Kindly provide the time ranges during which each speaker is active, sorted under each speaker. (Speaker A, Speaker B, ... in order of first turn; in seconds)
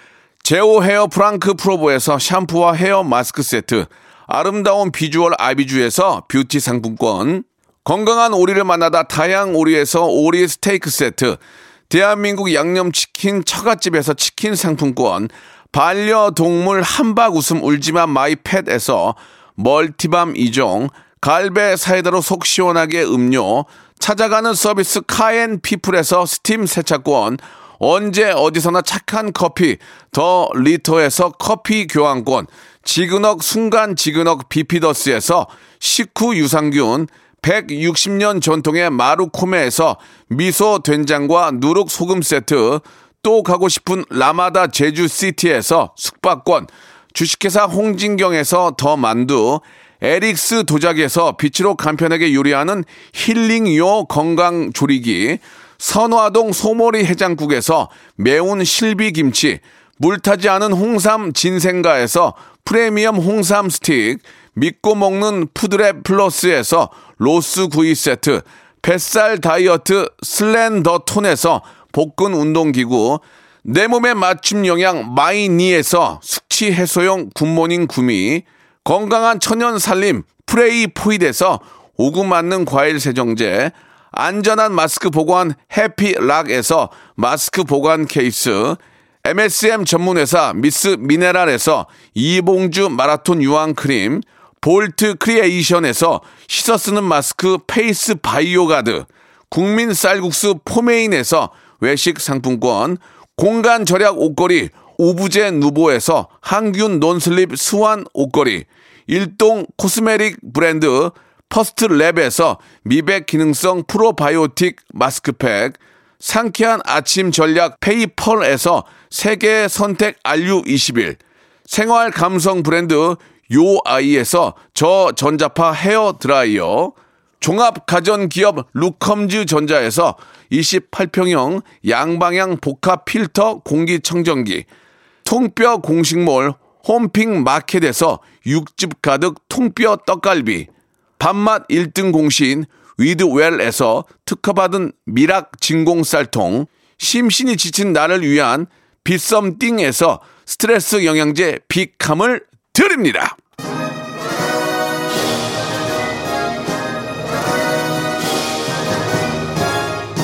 Speaker A: 0.4-134.7, 135.2-153.4